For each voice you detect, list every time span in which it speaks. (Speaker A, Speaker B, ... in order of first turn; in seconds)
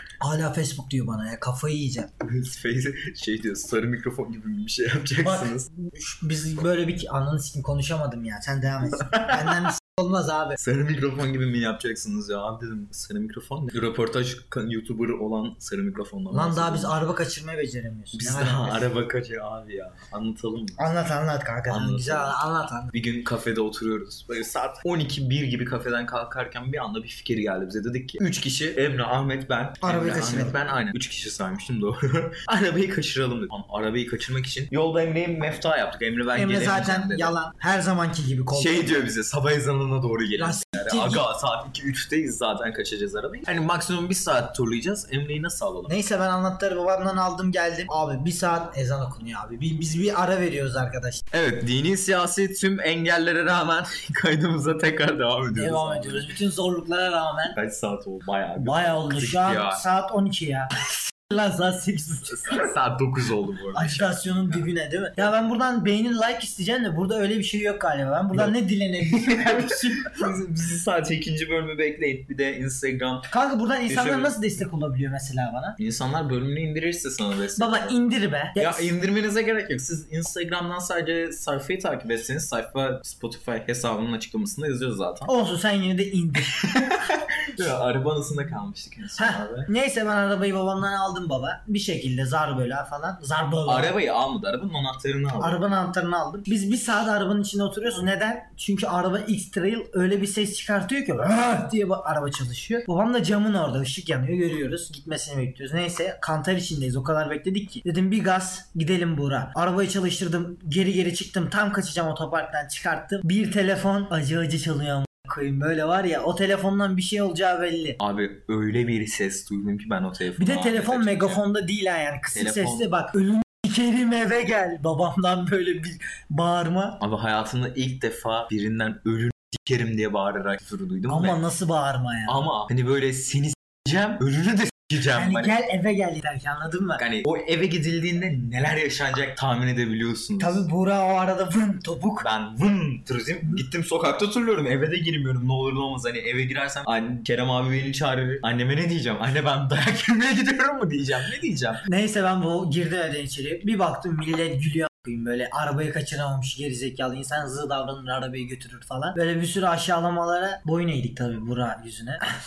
Speaker A: 0.2-2.1, 5.2-10.6, 16.3-18.9, 20.8-22.9, 29.8-30.6, 36.4-39.0, 40.4-41.2, 45.9-51.2, 55.6-57.6, 58.6-62.6, 63.7-70.1, 73.3-75.8, 77.6-78.9, 85.3-86.6, 89.2-93.9, 95.4-118.0, 120.4-127.0, 131.1-132.4, 135.1-137.0, 140.4-142.3, 151.9-162.2
Speaker B: 2.2-5.7, 9.1-9.7, 10.6-17.1, 18.1-20.8, 21.7-22.4, 22.9-37.4, 38.5-45.9, 51.3-56.4, 57.5-59.8, 62.3-64.6, 69.0-73.3, 73.9-74.3, 75.8-78.0, 78.6-85.3, 86.6-89.7, 93.7-95.6, 118.0-121.4, 122.3-122.8, 127.0-131.4, 132.3-135.6, 137.0-140.7, 142.2-151.8